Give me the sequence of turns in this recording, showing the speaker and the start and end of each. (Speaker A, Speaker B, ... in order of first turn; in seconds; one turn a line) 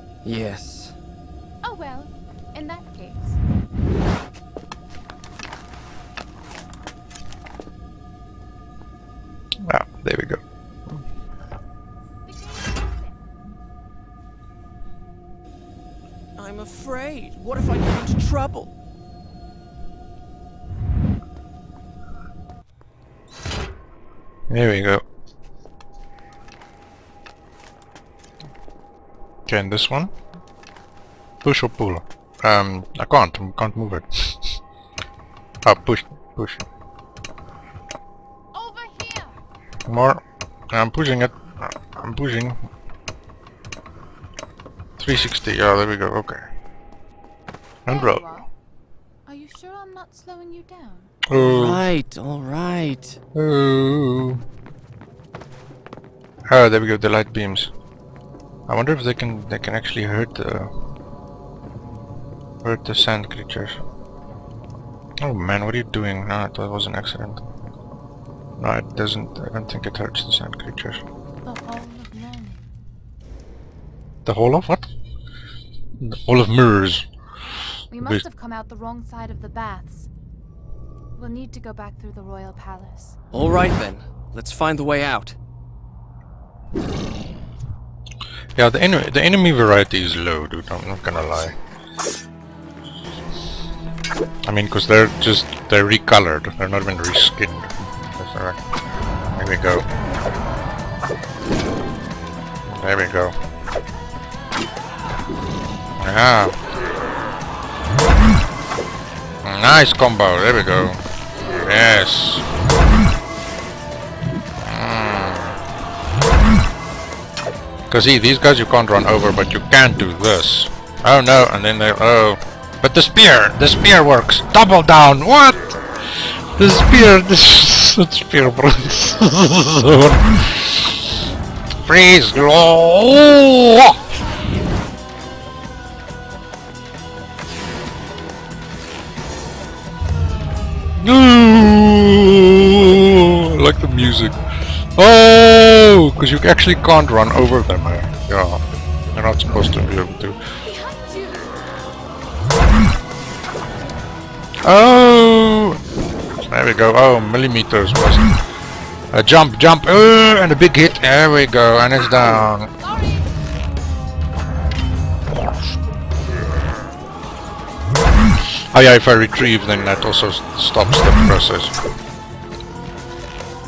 Speaker A: 0.2-1.0
Speaker B: 1.6-3.4
Speaker C: 9.7-10.4
Speaker B: 12.3-13.2
Speaker A: 16.4-18.7
Speaker C: 24.5-25.0
Speaker C: 29.5-30.1
Speaker C: 31.4-34.4
Speaker C: 35.6-36.7
Speaker B: 38.5-39.4
Speaker C: 39.9-42.6
Speaker C: 45.0-46.5
Speaker C: 47.9-48.3
Speaker B: 47.9-48.5
Speaker B: 49.3-51.1
Speaker C: 51.3-51.8
Speaker A: 51.3-53.2
Speaker C: 53.4-54.4
Speaker C: 56.5-57.7
Speaker C: 58.7-60.7
Speaker C: 62.6-63.8
Speaker C: 65.2-67.5
Speaker C: 68.6-71.0
Speaker B: 71.5-72.7
Speaker C: 74.2-74.9
Speaker C: 76.0-77.1
Speaker B: 77.9-80.1
Speaker B: 81.2-83.2
Speaker A: 83.3-85.4
Speaker C: 88.6-91.5
Speaker C: 94.5-98.6
Speaker C: 99.3-99.9
Speaker C: 102.7-103.3
Speaker C: 106.0-106.6
Speaker C: 109.4-112.5
Speaker C: 114.6-115.6
Speaker C: 117.9-125.8
Speaker C: 126.6-131.0
Speaker C: 131.8-134.0
Speaker C: 141.0-144.4
Speaker C: 145.0-148.6
Speaker C: 149.1-150.4
Speaker B: 150.6-151.6
Speaker C: 154.7-155.8
Speaker C: 156.5-158.3
Speaker C: 159.1-162.7
Speaker B: 162.9-163.3
Speaker C: 168.7-171.7